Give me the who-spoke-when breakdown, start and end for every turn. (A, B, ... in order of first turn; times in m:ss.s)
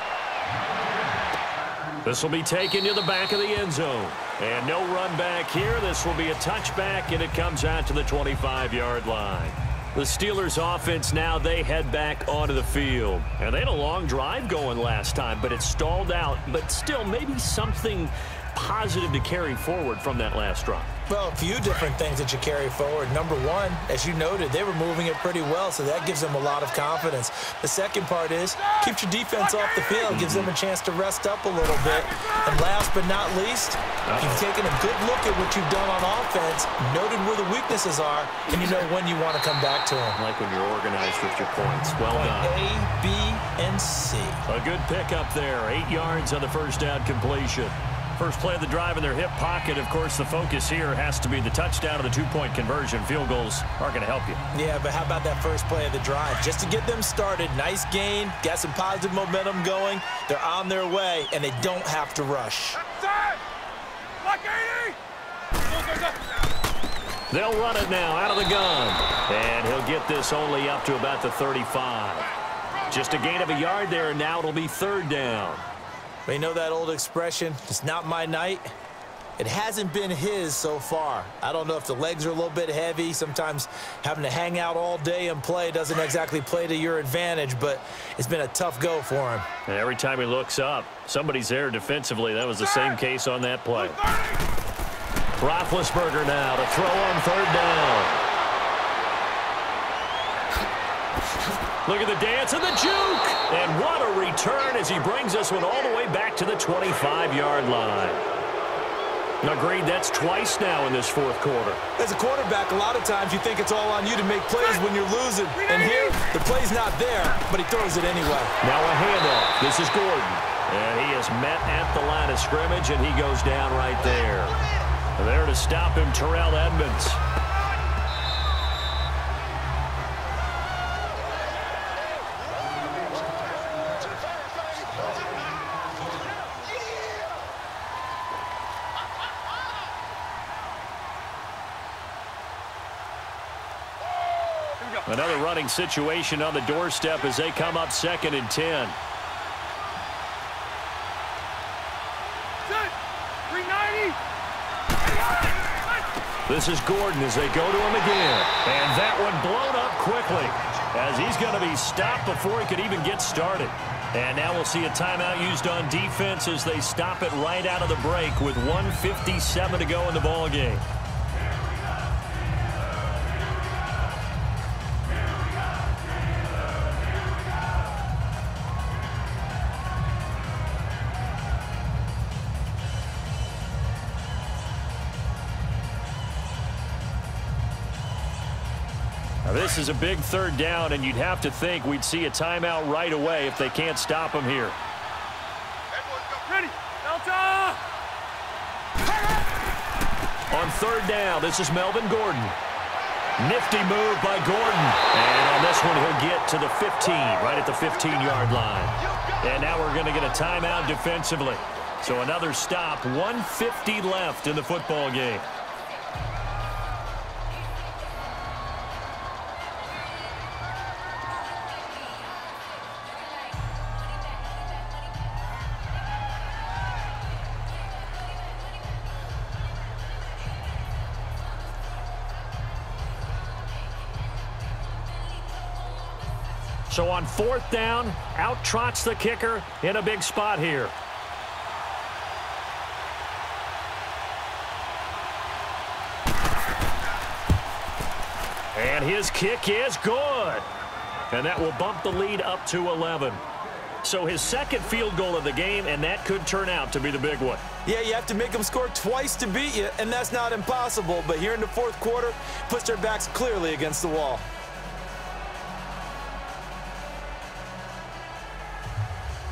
0:02.0-0:20.9 A
0:21.1-0:40.2 B
0:28.6-0:29.0 C
0:30.1-0:30.5 A
0:31.7-0:32.6 C
0:34.1-0:34.5 A
0:40.2-0:42.6 A
0:42.1-0:44.4 B
0:44.5-0:54.4 A
0:54.5-1:02.8 B
1:02.9-1:03.4 C
1:04.2-1:05.0 C
1:05.6-1:06.2 C
1:07.3-1:12.3 A
1:12.9-1:15.6 A
1:16.3-1:18.7 B
1:19.4-1:29.5 B
1:29.7-1:34.0 A
1:33.8-1:34.4 C
1:35.4-1:38.2 A
1:41.9-1:48.2 A
1:49.4-1:51.8 A
1:52.0-1:58.5 B
1:55.6-1:56.2 C
1:58.6-2:04.6 A
2:05.2-2:07.2 A
2:25.0-2:29.0 A
2:32.6-2:33.0 C
2:33.5-2:34.2 C
2:35.0-2:35.9 C
2:36.5-2:50.8 A
3:09.4-3:14.8 A
3:16.4-3:17.8 C
3:20.5-3:22.6 A
3:23.4-3:35.5 A
3:56.9-4:00.9 A
4:08.7-4:10.7 A
4:11.3-4:13.4 A
4:14.0-4:17.6 A
4:17.9-4:24.5 B